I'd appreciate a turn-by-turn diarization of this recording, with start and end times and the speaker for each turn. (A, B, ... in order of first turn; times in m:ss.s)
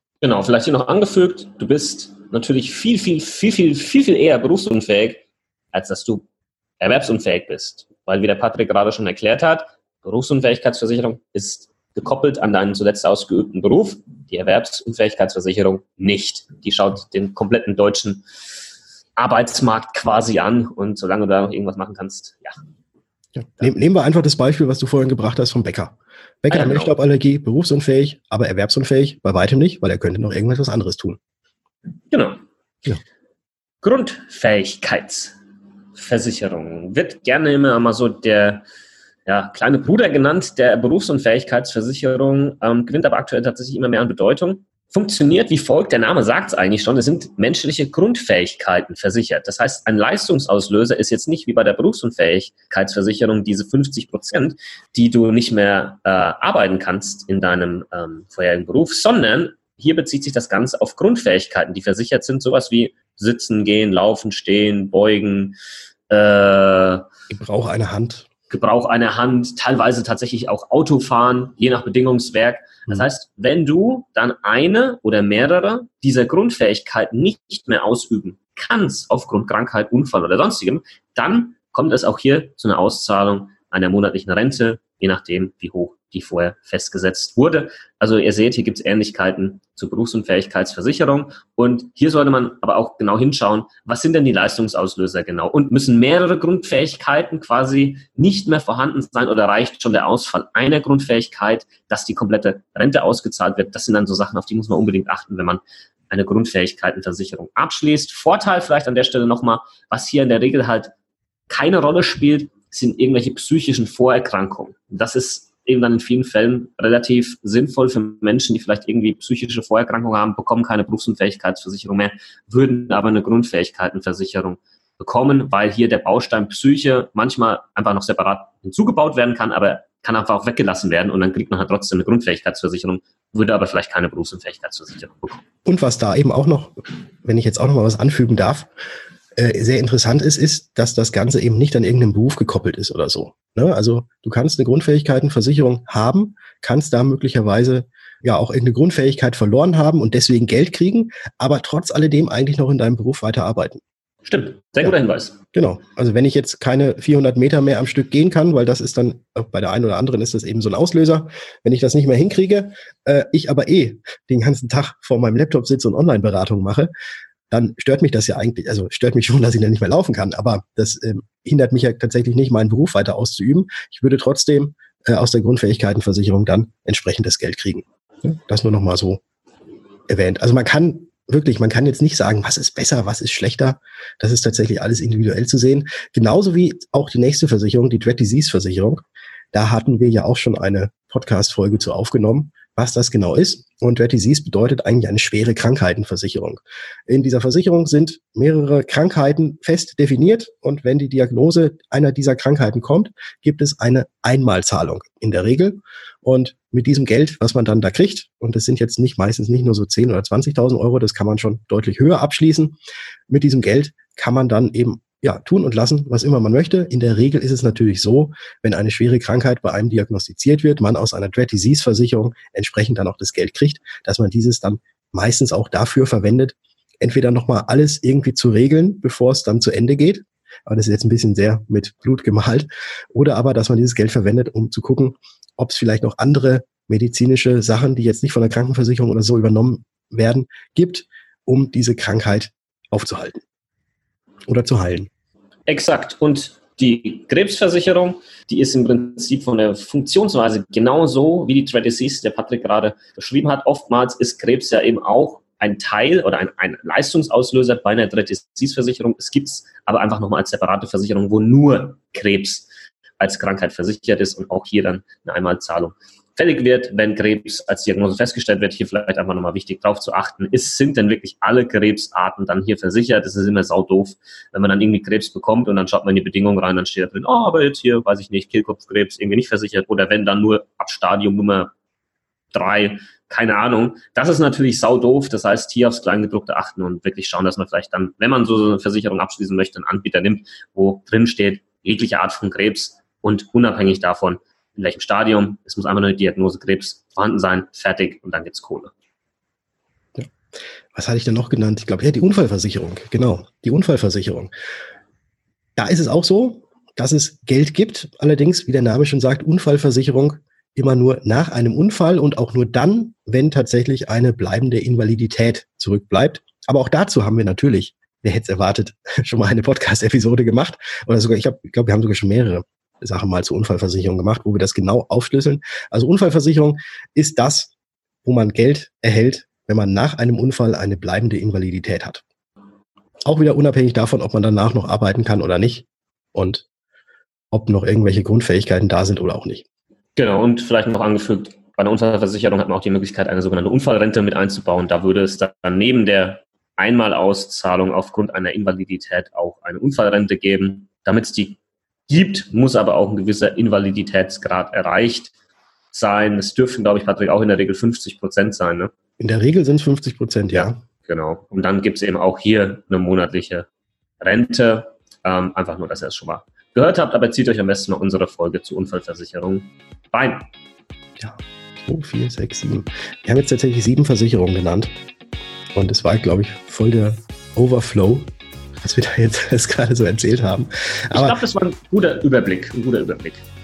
0:00.2-0:06.2 A
0:06.8-0:18.2 A
0:19.2-0:22.6 A
0:23.3-0:31.2 B
0:26.5-0:26.9 A
0:32.1-0:32.4 A
0:33.8-0:35.4 A
0:35.9-0:38.6 A
0:39.2-1:05.6 A
1:06.1-1:07.0 A
1:07.3-1:08.3 B
1:08.5-1:50.9 A
1:51.5-2:15.4 A
2:15.6-2:18.7 B
2:19.4-2:33.8 B
2:34.2-2:35.4 A
2:35.5-2:46.9 B
2:47.5-2:59.2 B
3:00.1-3:32.8 B
3:33.3-4:03.4 B
4:04.5-4:05.1 B
4:05.7-4:22.7 A
4:23.2-4:41.7 A
4:42.5-4:58.9 A
5:00.9-5:04.5 B
5:05.8-5:27.7 B
5:28.2-5:32.2 B
5:33.3-5:36.6 B
5:37.5-5:39.6 B
5:40.2-5:55.3 A
5:55.9-5:58.9 A
5:59.2-6:00.8 B
6:00.5-6:03.7 A
6:04.2-6:10.5 A
6:11.2-6:14.9 B
6:15.7-6:18.3 B
6:18.8-6:21.4 B
6:21.1-6:23.4 A